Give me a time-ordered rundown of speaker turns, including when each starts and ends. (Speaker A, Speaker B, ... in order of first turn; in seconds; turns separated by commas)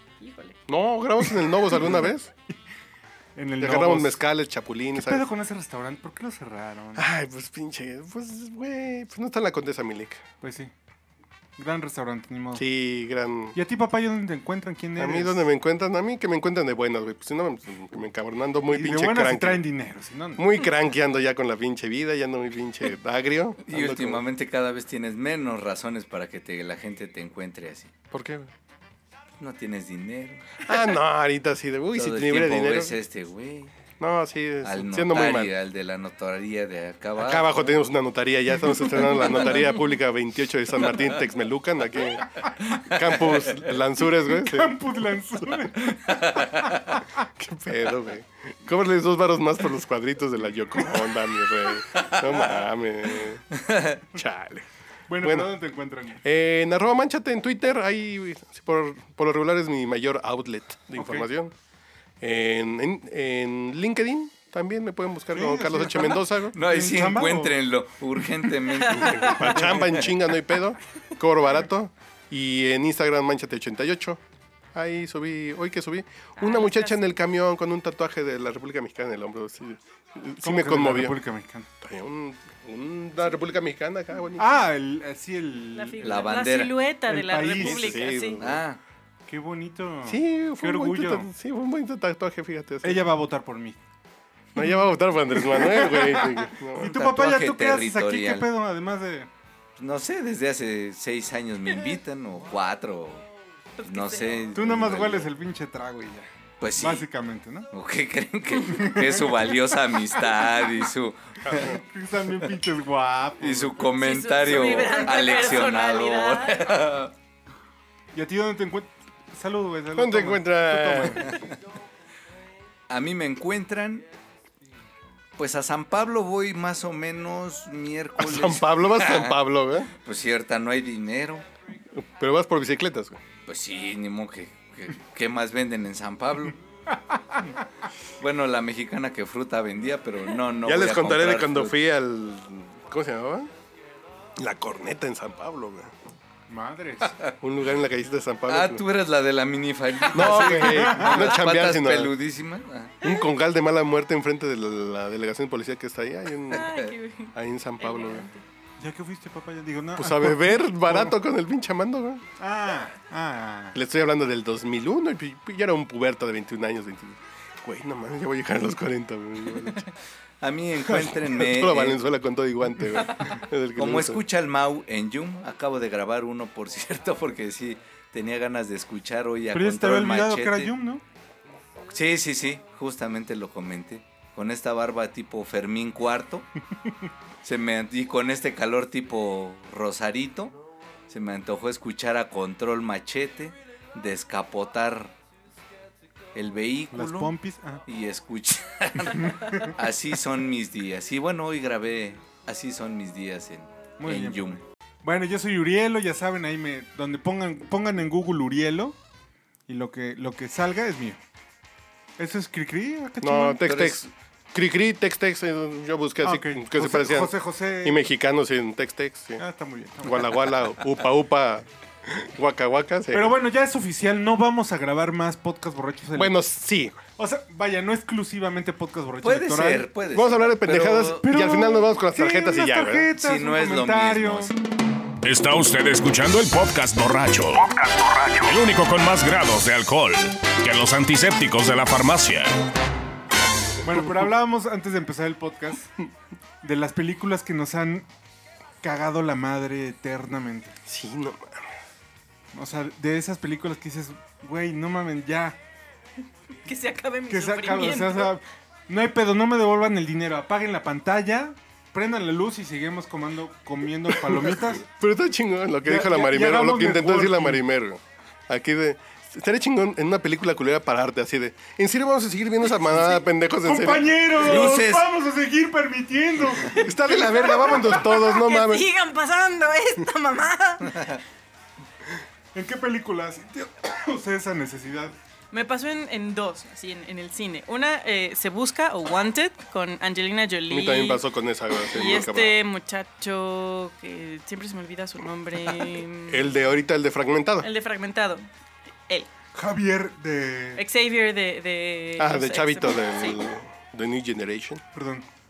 Speaker A: 0.2-0.6, Speaker B: 0.7-2.3, Speaker C: 3.4-4.2, Speaker B: 3.6-5.3, Speaker C: 4.9-7.1, Speaker B: 7.0-10.2, Speaker C: 10.4-10.7, Speaker C: 11.6-12.7, Speaker B: 12.6-13.6, Speaker C: 13.5-15.5, Speaker B: 15.0-19.6, Speaker C: 18.7-20.4, Speaker B: 20.4-24.2, Speaker D: 23.7-27.9, Speaker B: 28.1-28.5, Speaker D: 29.4-30.6, Speaker B: 30.6-33.0, Speaker D: 31.9-33.7, Speaker B: 34.0-35.5, Speaker D: 34.6-37.5, Speaker B: 37.2-44.7, Speaker C: 44.3-46.4, Speaker D: 46.1-46.9, Speaker B: 47.4-53.5, Speaker D: 53.6-54.0, Speaker B: 54.1-54.7, Speaker C: 55.1-56.2, Speaker B: 55.2-55.5, Speaker B: 56.2-61.5, Speaker C: 61.0-61.3, Speaker B: 62.2-66.5, Speaker C: 65.3-67.6, Speaker D: 66.5-70.0, Speaker A: 68.8-69.3, Speaker B: 68.9-74.2, Speaker C: 69.5-69.9, Speaker B: 74.7-81.2, Speaker A: 76.4-77.1, Speaker C: 80.4-81.7, Speaker B: 81.8-84.6, Speaker C: 84.4-86.2, Speaker A: 85.8-88.4, Speaker D: 86.0-86.8, Speaker C: 87.1-88.0, Speaker B: 87.6-88.6, Speaker D: 88.4-88.8, Speaker C: 89.3-91.3, Speaker B: 90.1-93.0, Speaker C: 92.8-93.8, Speaker B: 94.5-97.0, Speaker C: 95.3-99.3, Speaker D: 96.9-98.5, Speaker D: 99.8-103.3, Speaker A: 103.8-104.4, Speaker D: 103.8-105.3, Speaker C: 104.5-107.7, Speaker D: 106.6-107.0, Speaker D: 107.7-111.7, Speaker C: 108.8-109.2, Speaker B: 111.4-111.8, Speaker C: 111.6-113.9, Speaker D: 113.4-117.1, Speaker A: 114.0-116.8, Speaker C: 118.1-121.4, Speaker B: 120.0-121.3, Speaker D: 122.9-124.0, Speaker D: 125.4-129.4, Speaker B: 128.2-129.9, Speaker D: 130.0-131.4, Speaker B: 131.9-133.2, Speaker D: 133.5-136.6, Speaker D: 138.2-141.8, Speaker B: 140.6-143.5, Speaker B: 144.4-145.9, Speaker C: 146.5-147.1, Speaker D: 147.0-147.3, Speaker B: 147.4-148.8, Speaker D: 148.5-152.9, Speaker B: 150.1-152.1, Speaker C: 150.6-151.3, Speaker B: 153.0-156.7, Speaker A: 156.5-158.4, Speaker D: 156.5-156.9, Speaker B: 157.3-158.3, Speaker C: 158.8-161.1, Speaker B: 160.0-162.2, Speaker C: 162.4-163.8, Speaker B: 163.7-169.8, Speaker D: 170.4-172.0, Speaker B: 170.9-174.2, Speaker D: 173.8-180.7, Speaker C: 179.5-181.0, Speaker D: 181.9-186.5, Speaker D: 187.4-190.6, Speaker D: 191.1-195.1, Speaker D: 196.3-197.3, Speaker C: 196.9-197.8, Speaker D: 197.9-204.6, Speaker C: 199.1-199.7, Speaker C: 204.0-209.0, Speaker C: 209.7-211.2, Speaker C: 212.2-213.6, Speaker B: 213.2-219.4, Speaker D: 213.6-214.1, Speaker C: 216.2-218.0, Speaker C: 219.4-220.2, Speaker B: 220.0-223.3, Speaker C: 223.1-226.4, Speaker B: 226.2-227.0, Speaker C: 227.2-229.9, Speaker D: 229.2-231.2, Speaker B: 230.1-233.1, Speaker C: 231.2-234.5, Speaker D: 233.2-234.5, Speaker E: 235.2-242.5, Speaker C: 243.8-245.9, Speaker C: 246.6-248.1, Speaker C: 248.8-250.8, Speaker B: 250.9-251.7, Speaker C: 252.5-255.6, Speaker A: 256.6-258.3, Speaker C: 257.3-264.9, Speaker B: 264.2-274.8, Speaker C: 265.9-267.6, Speaker C: 273.6-276.8, Speaker D: 274.4-275.1, Speaker B: 276.7-278.9, Speaker A: 276.7-281.1, Speaker C: 282.6-285.1, Speaker A: 285.5-291.2, Speaker B: 290.7-292.6, Speaker A: 291.9-296.5, Speaker B: 296.3-297.7, Speaker A: 297.6-298.5, Speaker C: 299.5-300.8, Speaker A: 300.8-303.4, Speaker B: 302.2-304.8, Speaker C: 304.9-305.2